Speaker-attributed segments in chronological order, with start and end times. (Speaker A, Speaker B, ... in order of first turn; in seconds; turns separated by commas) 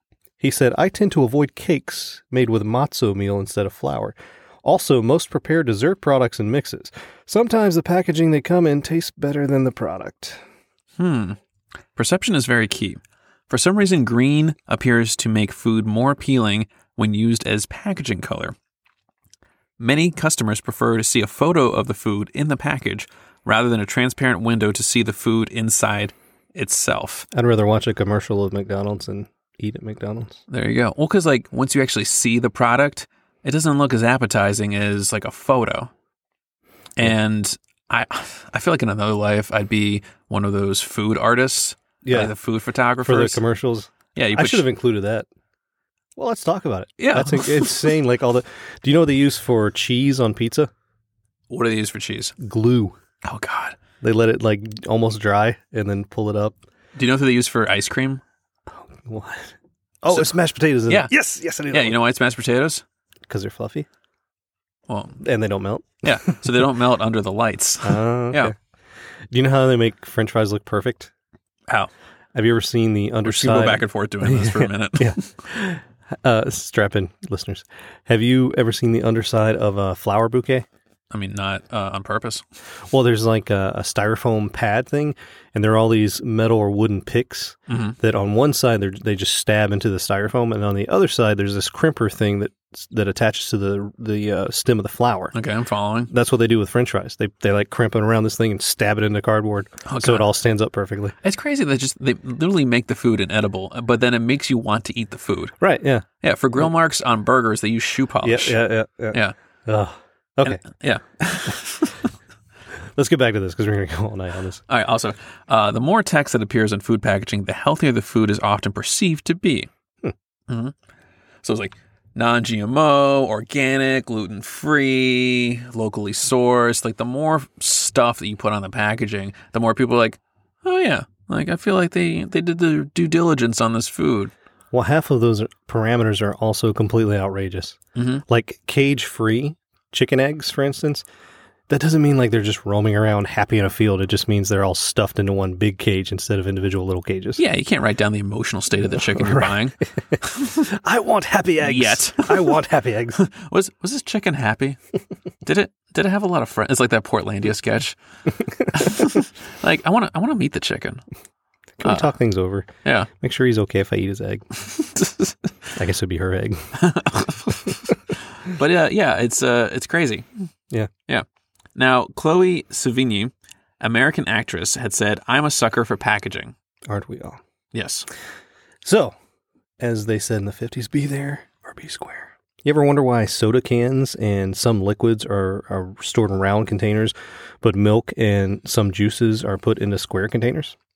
Speaker A: 0.4-10.4, Speaker B: 11.0-11.4, Speaker B: 12.0-18.6, Speaker B: 19.8-27.3, Speaker A: 27.3-30.4, Speaker B: 30.5-35.9, Speaker B: 37.0-43.4, Speaker A: 42.0-42.3, Speaker A: 43.0-45.3, Speaker B: 44.1-44.7, Speaker A: 46.2-50.7, Speaker B: 47.0-48.0, Speaker B: 51.5-52.3, Speaker A: 52.4-53.0, Speaker B: 53.2-53.8, Speaker A: 54.0-56.6, Speaker B: 57.0-58.2, Speaker A: 58.8-59.5, Speaker A: 60.0-62.0, Speaker B: 61.7-62.8, Speaker A: 63.3-63.9, Speaker B: 64.9-65.2, Speaker A: 65.2-66.7, Speaker B: 66.0-68.5, Speaker A: 67.8-68.5, Speaker A: 69.3-71.1, Speaker A: 72.3-80.7, Speaker B: 73.2-75.2, Speaker B: 81.1-82.4, Speaker A: 82.9-95.3, Speaker B: 87.7-88.0, Speaker B: 95.3-96.1, Speaker A: 96.1-101.1, Speaker B: 99.9-100.3, Speaker B: 101.2-105.5, Speaker A: 105.6-106.0, Speaker B: 106.2-108.6, Speaker A: 108.2-110.6, Speaker B: 110.5-112.1, Speaker A: 113.0-114.6, Speaker B: 114.7-119.7, Speaker B: 120.5-120.7, Speaker B: 121.4-134.3, Speaker A: 134.7-141.0, Speaker B: 137.9-138.2, Speaker A: 141.7-147.4, Speaker B: 147.4-150.6, Speaker A: 149.1-149.6, Speaker A: 150.4-153.2, Speaker B: 151.6-152.6, Speaker B: 153.1-154.8, Speaker B: 155.4-158.0, Speaker B: 158.6-161.0, Speaker A: 161.8-162.7, Speaker B: 161.8-162.1, Speaker B: 162.8-163.1, Speaker A: 163.2-164.5, Speaker B: 164.6-165.5, Speaker A: 165.8-166.7, Speaker B: 166.8-170.3, Speaker B: 171.8-176.5, Speaker A: 176.9-177.4, Speaker B: 177.7-178.1, Speaker A: 178.8-179.1, Speaker A: 179.8-190.8